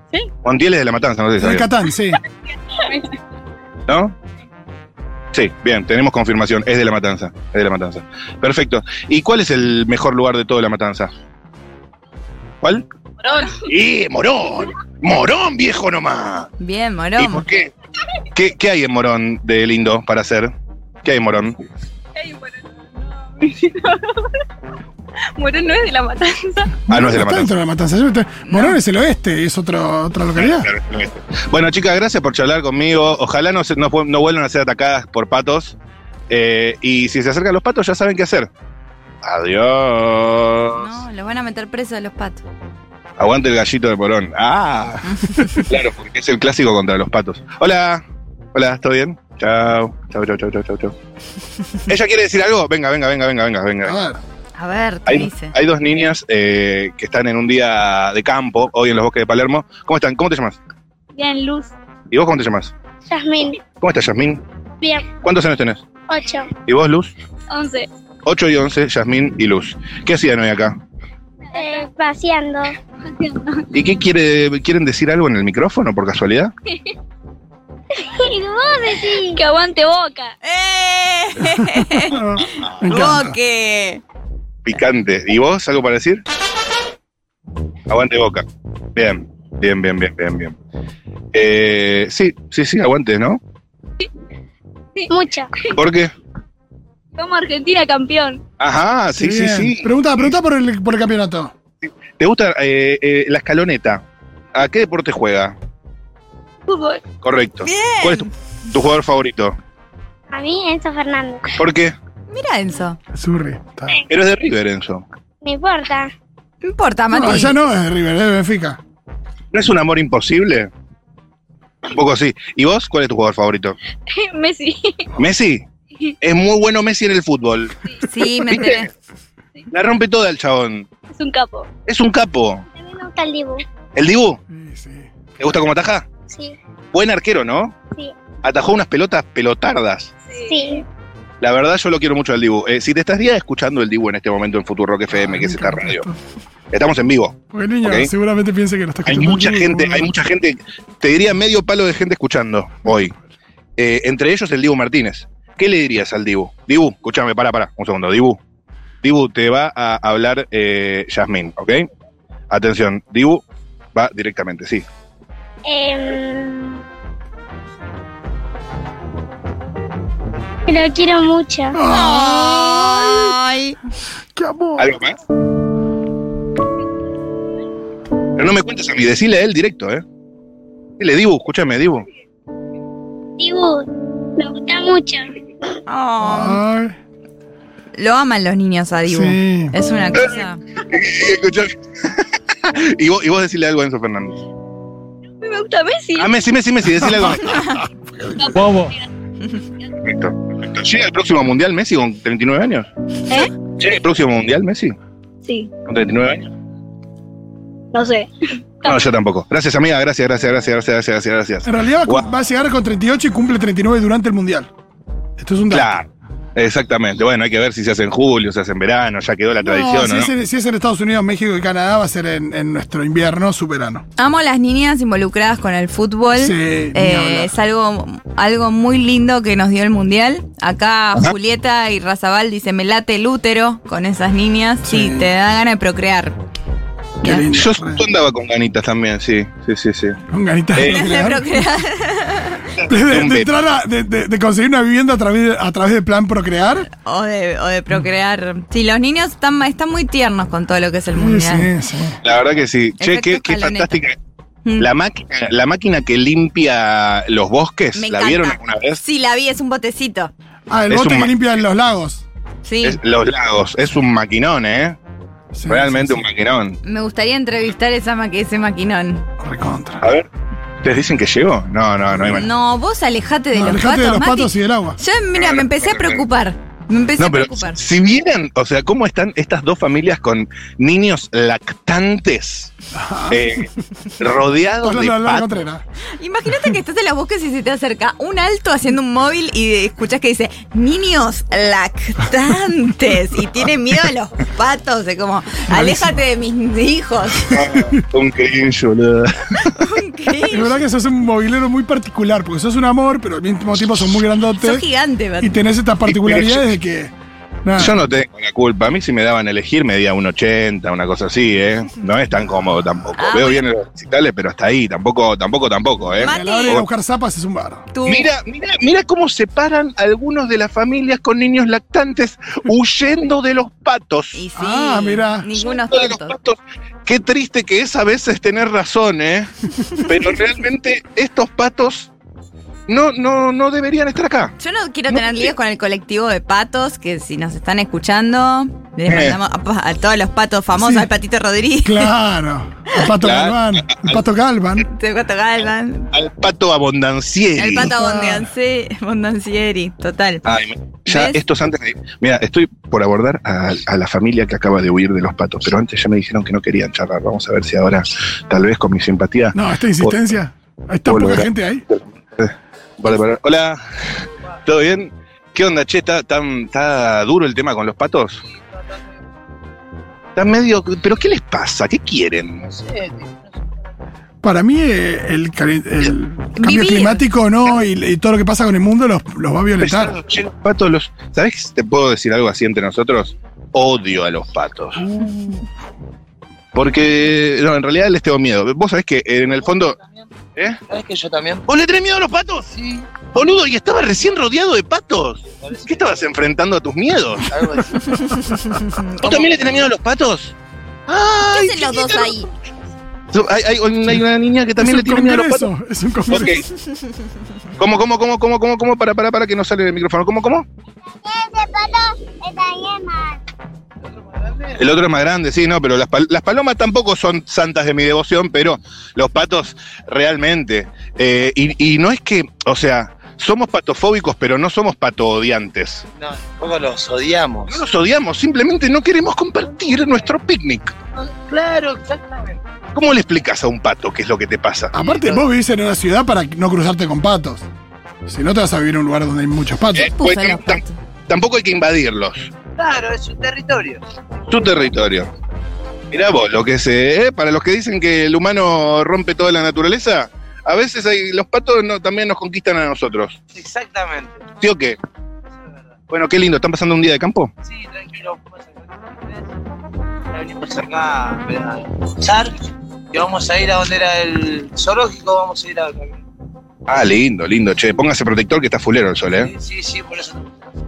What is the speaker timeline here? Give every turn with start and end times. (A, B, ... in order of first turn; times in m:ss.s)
0:00.4-0:01.7 A
0:01.4-0:02.2 B
0:03.9-0:04.1 A
0:05.3-0:11.1 A
0:13.6-0:16.5 A
0:16.6-0:17.4 C
0:17.2-0:17.7 A
0:18.3-0:20.5 A
0:21.0-0:21.6 A
0:25.4-0:26.6 D
0:26.9-0:30.7 B
0:26.9-0:27.5 A
0:28.5-0:28.8 C
0:30.4-0:35.8 A
0:36.3-0:38.5 A
0:39.2-0:40.9 A
0:40.7-0:42.4 C
0:43.2-0:50.9 A
0:45.3-0:45.6 C
0:51.9-0:54.0 A
0:53.8-0:54.2 B
0:54.6-0:55.5 C
0:55.1-1:00.6 A
1:01.1-1:01.7 D
1:02.1-1:02.7 A
1:03.0-1:03.6 E
1:03.8-1:04.4 A
1:04.8-1:05.1 E
1:05.2-1:05.8 A
1:06.1-1:06.5 E
1:06.6-1:07.1 A
1:07.5-1:07.9 D
1:08.2-1:10.8 A
1:11.5-1:11.9 D
1:11.5-1:12.7 E
1:13.0-1:13.6 D
1:13.7-1:16.5 A
1:18.0-1:19.4 E
1:19.3-1:20.3 D
1:20.4-1:22.2 C
1:21.4-1:23.4 B
1:22.8-1:24.0 C
1:24.6-1:26.2 A
1:27.9-1:28.4 A
1:29.0-1:30.6 A
1:31.3-1:33.4 A
1:35.1-1:35.5 E
1:35.7-1:36.1 A
1:37.1-1:38.4 D
1:38.6-1:40.3 A
1:39.2-1:41.5 B
1:41.8-1:44.0 A
1:44.5-1:45.6 A
1:46.7-1:47.0 D
1:47.2-1:49.6 A
1:47.6-1:48.3 C
1:50.3-1:51.5 E
1:51.6-1:52.0 A
1:52.3-1:53.0 C
1:53.1-1:54.0 B
1:54.1-1:55.0 A
1:55.4-1:56.1 E
1:56.6-1:57.6 C
1:57.1-1:58.8 B
1:59.5-2:00.7 A
2:01.8-2:03.8 A
2:04.1-2:05.0 D
2:05.2-2:05.6 A
2:06.2-2:07.7 A
2:08.0-2:08.9 C
2:08.5-2:08.8 A
2:09.7-2:10.9 A
2:11.1-2:11.7 D
2:11.8-2:12.6 A
2:12.8-2:13.6 E
2:14.0-2:14.4 A
2:14.5-2:15.1 B
2:15.4-2:16.0 A
2:16.3-2:16.5 E
2:16.9-2:17.7 A
2:18.4-2:20.1 A
2:20.3-2:20.8 D
2:20.4-2:20.8 E
2:21.4-2:26.1 A
2:25.1-2:26.2 B
2:26.7-2:28.1 A
2:27.5-2:30.1 B
2:29.0-2:33.1 A
2:33.8-2:38.4 A
2:39.0-2:41.9 A
2:42.5-2:43.4 A
2:43.9-2:44.8 A
2:45.6-2:46.8 E
2:50.7-2:51.8 E
2:51.7-2:53.4 B
2:51.9-2:53.8 C
2:54.4-2:54.9 B
2:54.8-2:55.2 A
2:58.4-3:00.0 A
3:01.0-3:02.0 A
3:03.4-3:05.2 E
3:05.9-3:06.6 C
3:06.2-3:06.9 B
3:08.0-3:10.6 C
3:09.1-3:09.7 B
3:10.9-3:14.4 A
3:15.4-3:16.3 D
3:16.2-3:17.6 A
3:17.1-3:18.9 B
3:17.5-3:17.7 C
3:18.4-3:19.0 D
3:20.0-3:22.9 A
3:23.8-3:24.9 A
3:25.4-3:25.7 D
3:25.9-3:26.5 A
3:27.9-3:28.3 D
3:28.8-3:32.2 A
3:31.6-3:34.7 B
3:35.4-3:36.0 B
3:35.7-3:40.3 A
3:39.6-3:44.0 B
3:44.2-3:56.3 C
3:46.4-3:47.5 B
3:54.8-3:55.3 B
3:57.2-3:58.0 B
3:57.5-4:00.2 A
4:00.3-4:01.6 B
4:00.7-4:01.0 A
4:00.9-4:02.6 C
4:02.8-4:03.5 A
4:02.9-4:06.9 B
4:06.9-4:11.7 C
4:11.1-4:12.2 B
4:12.2-4:14.1 A
4:13.0-4:13.9 C
4:14.8-4:19.0 A
4:18.0-4:20.3 C
4:20.7-4:22.2 B
4:20.9-4:21.6 A
4:22.6-4:23.0 C
4:22.8-4:25.0 A
4:25.5-4:26.2 B
4:25.7-4:26.8 A
4:26.8-4:29.2 C
4:29.4-4:30.0 B
4:30.0-4:30.3 A
4:30.8-4:32.4 A
4:32.2-4:37.8 C
4:33.5-4:35.0 B
4:35.4-4:36.2 A
4:37.2-4:42.7 A
4:42.9-4:43.6 B
4:43.3-4:45.6 A
4:44.8-4:45.8 B
4:46.2-4:57.5 C
4:55.7-4:56.2 B
4:57.5-4:59.7 A
4:59.6-5:00.8 C
5:00.5-5:04.9 B
5:04.6-5:05.5 C
5:05.4-5:07.1 B
5:06.1-5:06.7 A
5:07.6-5:08.0 B
5:07.8-5:16.9 A
5:13.2-5:13.6 C
5:16.2-5:16.8 C
5:16.2-5:17.8 B
5:17.9-5:18.3 C
5:18.0-5:24.4 A
5:24.3-5:26.3 C
5:24.6-5:25.5 B
5:25.6-5:32.1 A
5:32.9-5:34.5 A
5:34.6-5:42.1 C
5:35.1-5:35.5 A
5:39.1-5:39.4 A
5:40.8-5:41.1 B
5:41.8-5:44.8 B
5:43.2-5:44.2 A
5:44.8-5:46.1 C
5:46.1-5:47.9 A
5:47.6-5:50.4 C
5:47.8-5:48.5 B
5:50.4-6:00.2 A
5:51.1-5:51.4 C
5:59.5-6:01.8 B
6:01.1-6:03.8 A
6:04.6-6:08.4 A
6:10.4-6:12.6 A
6:12.6-6:13.4 F
6:14.4-6:20.2 B
6:16.6-6:17.2 C
6:19.8-6:25.0 A
6:25.0-6:25.7 B
6:26.7-6:30.0 A
6:30.9-6:31.6 F
6:31.6-6:32.7 A
6:32.7-6:33.2 F
6:33.2-6:37.5 A
6:35.6-6:36.1 F
6:37.5-6:38.1 F
6:38.1-6:38.8 B
6:38.3-6:39.2 C
6:39.2-6:40.5 A
6:39.3-6:39.8 F
6:41.1-6:42.4 A
6:41.4-6:42.5 C
6:43.3-6:45.7 A
6:44.8-6:46.8 B
6:46.3-6:46.6 A
6:47.8-6:50.6 A
6:51.2-6:53.4 E
6:54.2-6:54.8 F
6:54.8-7:06.0 A
7:06.2-7:07.8 F
7:07.7-7:10.9 A
7:11.2-7:12.6 F
7:12.9-7:14.9 A
7:14.9-7:17.6 B
7:18.2-7:20.1 B
7:19.9-7:22.5 A
7:20.1-7:21.0 C
7:22.8-7:24.1 F
7:24.5-7:25.3 A
7:26.1-7:33.4 A
7:33.5-7:34.4 F
7:34.6-7:35.0 A
7:35.6-7:35.9 F
7:36.1-7:37.5 A
7:37.6-7:39.5 F
7:40.3-7:42.5 F
7:43.1-7:46.2 F
7:46.9-7:49.5 A
7:49.3-7:50.7 F